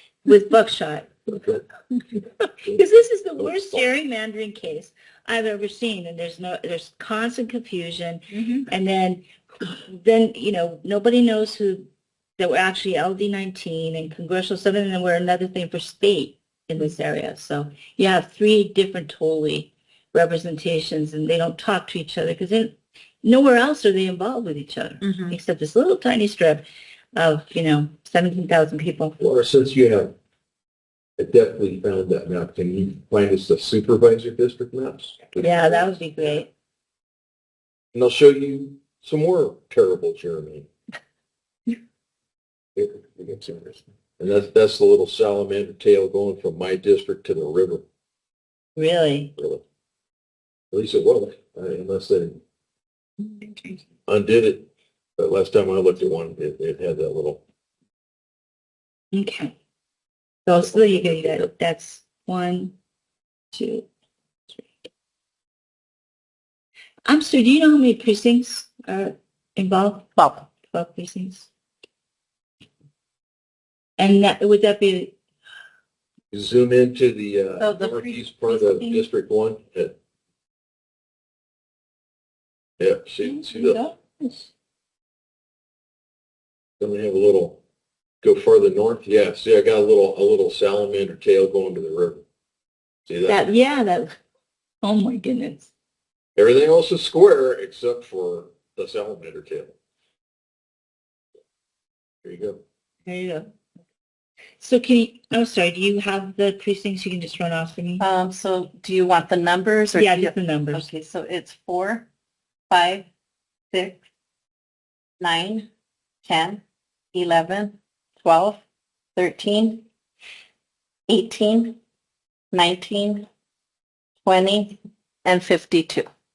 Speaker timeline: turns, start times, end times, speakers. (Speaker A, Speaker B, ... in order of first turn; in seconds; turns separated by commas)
Speaker A: 0.2-1.1, Speaker A: 2.6-29.2, Speaker B: 3.4-3.8, Speaker B: 29.2-30.1, Speaker B: 31.2-35.5, Speaker A: 35.4-36.5, Speaker B: 37.9-40.7, Speaker B: 42.8-47.8, Speaker A: 48.8-49.3, Speaker B: 49.4-49.6, Speaker B: 50.7-52.4, Speaker B: 54.1-57.4, Speaker A: 59.1-59.5, Speaker A: 60.5-62.7, Speaker B: 60.6-61.5, Speaker A: 63.5-63.9, Speaker A: 67.1-71.5, Speaker C: 70.2-70.5, Speaker A: 74.0-75.2, Speaker B: 76.3-80.0, Speaker C: 77.6-78.2, Speaker A: 78.5-79.1, Speaker B: 82.8-83.8, Speaker A: 83.2-84.5, Speaker B: 86.8-87.6, Speaker B: 88.2-92.2, Speaker B: 93.1-93.4, Speaker A: 93.3-94.2, Speaker A: 94.8-95.7, Speaker B: 96.4-99.7, Speaker B: 102.2-102.6, Speaker A: 103.1-103.5, Speaker A: 104.6-108.1, Speaker C: 108.0-112.1, Speaker A: 109.9-110.9, Speaker C: 112.7-113.1, Speaker C: 113.7-114.0, Speaker C: 115.2-115.7, Speaker C: 116.2-118.6, Speaker C: 119.2-119.8, Speaker C: 121.1-121.8, Speaker C: 122.5-123.3, Speaker C: 124.2-126.1